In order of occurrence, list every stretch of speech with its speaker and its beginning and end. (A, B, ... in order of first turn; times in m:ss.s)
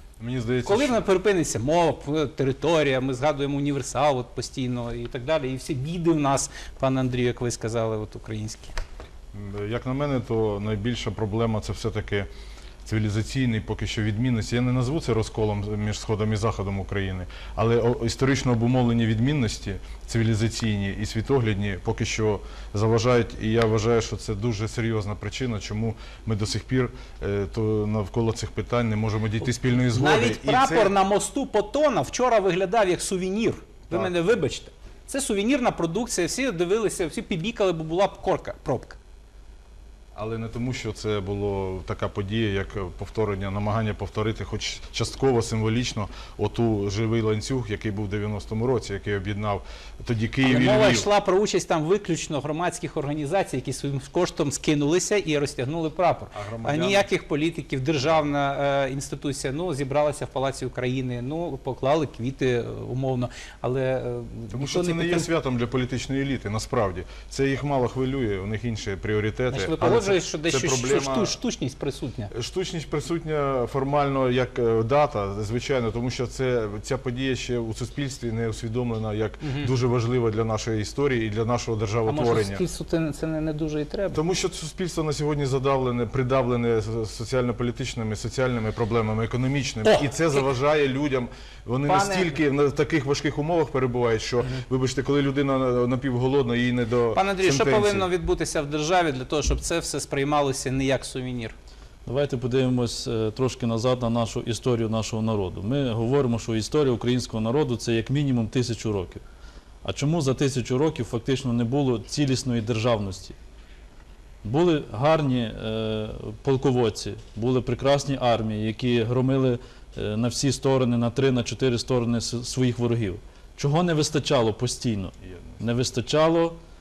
0:00.2-0:01.0 A
0:00.6-0:08.7 B
0:09.3-0:12.3 A
0:12.9-0:31.0 A
0:29.8-0:39.0 B
0:40.2-0:51.1 A
0:50.4-1:05.3 B
0:56.3-0:57.1 A
1:04.5-1:11.4 A
1:09.5-1:12.3 B
1:12.3-1:22.6 A
1:19.4-1:19.7 B
1:22.1-1:24.2 B
1:24.1-1:38.1 A
1:29.8-1:30.4 B
1:31.9-1:32.3 B
1:37.1-1:41.6 B
1:42.1-1:49.2 C
1:49.8-1:53.4 C
1:54.4-2:06.6 C
2:05.2-2:05.6 A